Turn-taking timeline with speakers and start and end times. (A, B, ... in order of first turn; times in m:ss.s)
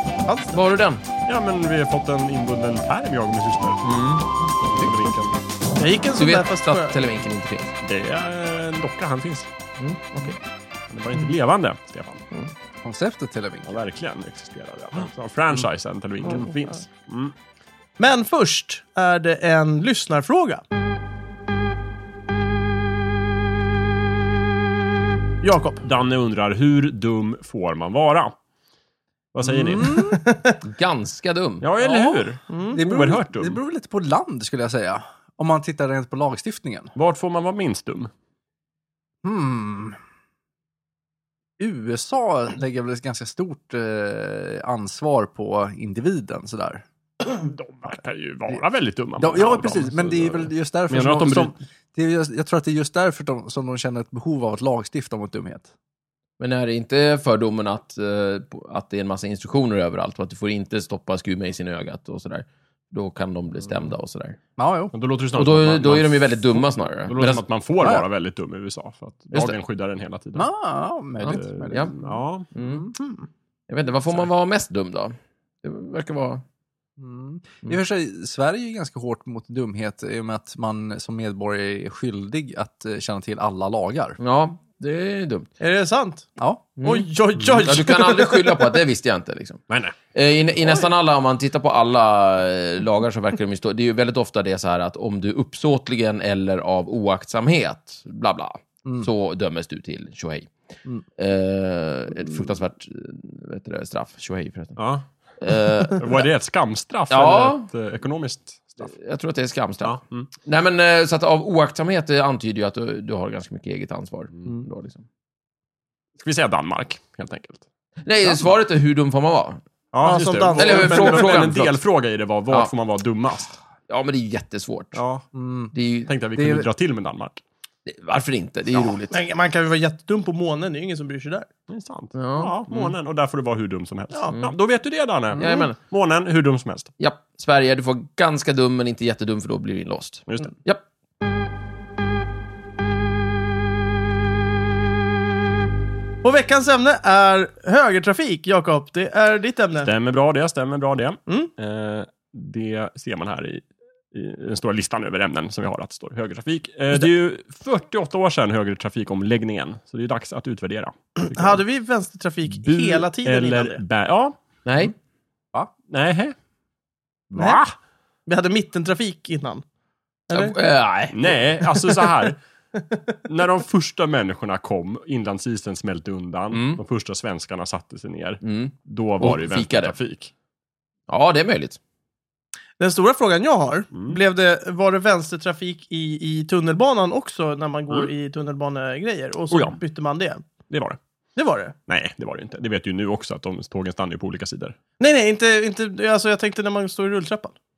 0:00.2-0:00.6 A
0:00.5-0:01.0 B
0:01.3-0:03.9 C
0:03.8-0:04.3 B
0:04.6-0:05.4 C
0:05.8-0:07.0 A
0:06.2-0:07.7 B
0:07.8-0:09.5 C
0:09.8-0:10.4 B
0:10.9-0:12.2 C
0:12.8-0:13.8 D
0:13.7-0:17.3 C
0:16.3-0:16.5 A
0:18.0-0:20.6 A
0:25.4-0:25.8 A
0:25.8-0:28.4 C
0:29.3-0:30.0 C
0:29.7-0:30.2 D
0:29.8-0:30.6 A
0:30.6-0:31.7 B
0:31.6-0:33.6 C
0:31.8-0:32.2 D
0:32.5-0:32.8 A
0:32.7-0:36.9 D
0:37.0-0:38.1 C
0:39.2-0:40.0 D
0:41.6-0:46.8 D
0:47.3-0:51.5 C
0:49.2-0:55.7 D
0:56.4-1:04.4 B
1:04.6-1:04.9 D
1:04.9-1:10.5 C
1:05.3-1:07.4 B
1:07.8-1:08.0 D
1:10.4-1:13.0 D
1:11.2-1:11.9 B
1:11.3-1:12.5 C
1:12.5-1:12.8 B
1:13.7-1:16.4 B
1:17.0-1:24.2 D
1:24.2-1:25.5 B
1:25.6-1:26.3 A
1:26.8-1:29.6 B
1:26.8-1:28.7 A
1:29.7-1:30.0 C
1:30.1-1:40.5 B
1:41.2-1:44.8 B
1:44.8-1:45.1 C
1:45.4-1:46.2 B
1:46.0-1:48.9 C
1:47.1-1:47.7 B
1:48.8-1:55.0 B
1:49.8-1:50.3 C
1:56.2-1:57.6 C
1:58.0-1:59.6 B
1:59.9-2:03.6 C
2:00.0-2:01.6 A
2:00.6-2:01.8 B
2:03.9-2:05.0 B
2:04.9-2:05.3 C
2:05.3-2:05.7 D
2:05.7-2:06.1 B
2:06.1-2:07.4 C
2:06.4-2:06.7 D
2:07.9-2:09.2 B
2:09.1-2:11.5 A
2:11.7-2:16.9 C
2:12.2-2:12.9 B
2:15.4-2:15.8 B
2:15.4-2:15.7 D
2:17.0-2:20.8 B
2:26.2-2:29.9 A
2:29.8-2:41.6 C
2:41.2-2:43.8 A
2:42.5-2:44.4 C
2:44.6-2:44.9 B
2:45.9-2:46.4 C
2:47.3-2:47.7 C
2:47.4-2:47.6 A
2:48.3-2:49.6 A
2:50.3-2:50.6 A
2:50.3-2:51.4 B
2:51.1-2:52.4 C
2:52.8-2:53.0 A
2:53.3-3:00.3 C
2:56.5-2:56.8 B
2:58.4-3:00.0 B
3:01.1-3:01.8 B
3:02.8-3:10.4 A
3:03.9-3:04.2 C
3:09.5-3:09.8 C
3:10.7-3:11.0 C
3:11.4-3:11.8 A
3:11.9-3:14.8 C
3:15.0-3:17.5 A